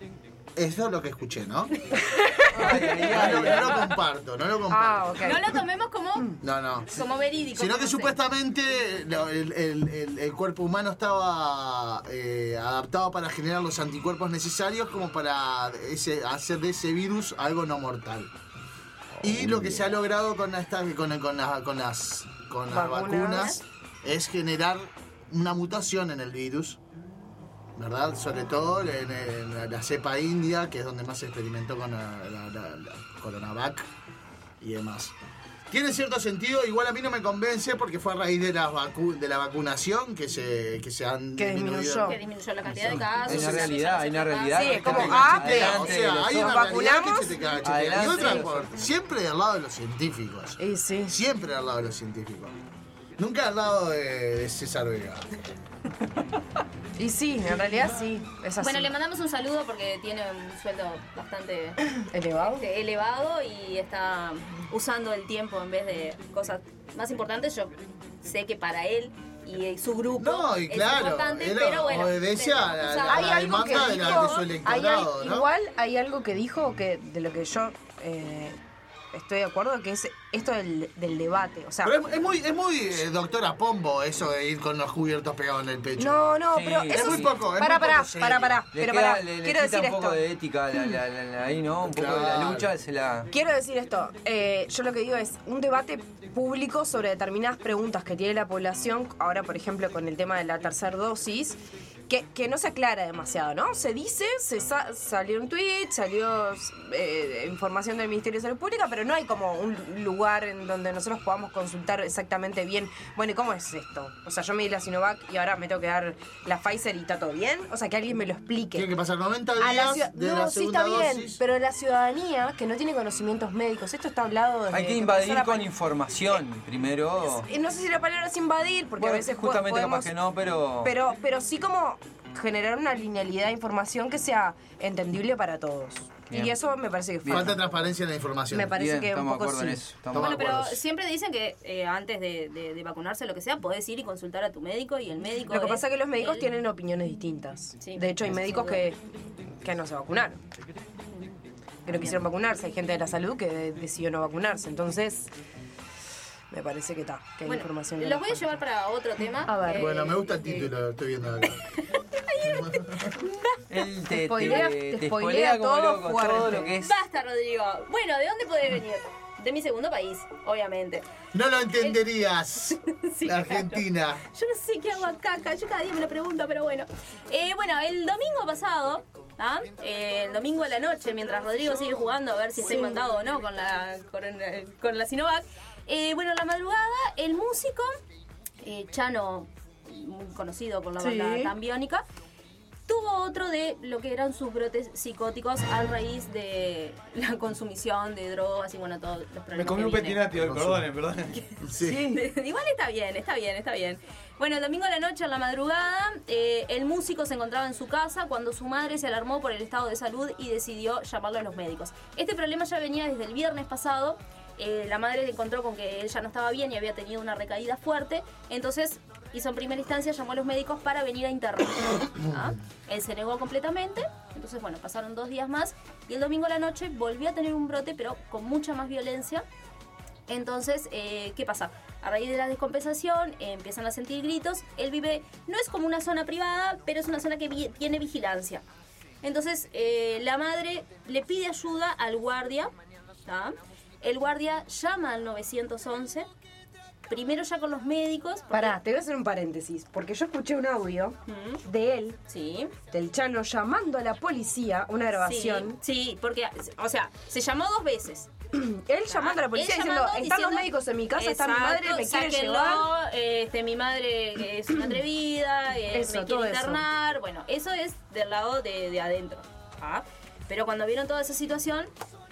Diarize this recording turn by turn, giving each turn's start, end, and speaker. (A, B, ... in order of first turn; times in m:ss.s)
0:00.6-0:01.7 A
0:02.0-0:03.4 B
0:02.6-0:03.9 C
0:03.0-0:05.4 A
0:04.7-0:05.4 B
0:05.2-0:08.2 D
0:06.4-0:18.3 A
0:19.2-0:26.8 A
0:22.7-0:23.6 B
0:23.3-0:23.6 D
0:27.8-0:33.9 A
0:34.6-0:35.1 A
0:35.7-0:42.2 A
0:41.4-0:42.2 B
0:42.0-0:45.2 D
0:42.7-0:46.8 C
0:44.6-0:47.4 B
0:44.8-0:52.6 A
0:47.6-0:48.7 C
0:50.6-0:51.2 B
0:53.2-0:55.3 A
0:57.0-0:58.9 B
0:58.6-1:14.5 D
1:02.0-1:02.6 B
1:10.2-1:15.5 A
1:13.1-1:18.6 B
1:19.1-1:22.0 B
1:21.8-1:28.6 A
1:26.0-1:30.2 B
1:26.5-1:27.3 C
1:28.7-1:33.3 C
1:31.8-1:32.7 A
1:33.3-1:58.9 B
1:58.8-2:01.4 A
1:59.6-2:05.7 B
2:04.7-2:07.5 C
2:07.3-2:10.1 B
2:09.0-2:10.9 C
2:10.8-2:17.6 B
2:16.3-2:16.6 C
2:17.2-2:17.6 C
2:17.3-2:18.8 A
2:18.5-2:19.8 B
2:18.7-2:20.7 C
2:20.1-2:20.8 A
2:20.2-2:26.5 D
2:25.5-2:29.0 B
2:27.8-2:28.8 D
2:29.6-2:30.4 B
2:31.9-2:35.3 B
2:31.9-2:32.2 D
2:36.5-2:38.6 B
2:37.5-2:40.7 D
2:39.5-2:40.1 B
2:39.7-2:41.6 A
2:41.8-2:43.6 D
2:42.4-2:43.1 A
2:43.7-2:47.0 C
2:44.1-2:46.7 B
2:46.8-2:51.0 D
2:51.3-2:54.2 A
2:52.6-3:07.9 D
3:02.6-3:03.0 B
3:08.6-3:12.0 D
3:11.0-3:11.5 B
3:12.9-3:20.4 D
3:19.5-3:21.5 E
3:20.5-3:20.8 A
3:21.6-3:22.0 A
3:21.8-3:22.2 B
3:22.1-3:49.4 D
3:50.3-3:58.6 D
3:59.2-4:02.7 D
4:03.3-4:06.3 D
4:07.1-4:08.8 D
4:08.5-4:12.2 B
4:11.3-4:11.6 D
4:12.3-4:12.7 D
4:12.9-4:15.8 B
4:15.2-4:18.3 D
4:18.5-4:22.9 B
4:19.1-4:31.9 D
4:25.9-4:26.8 B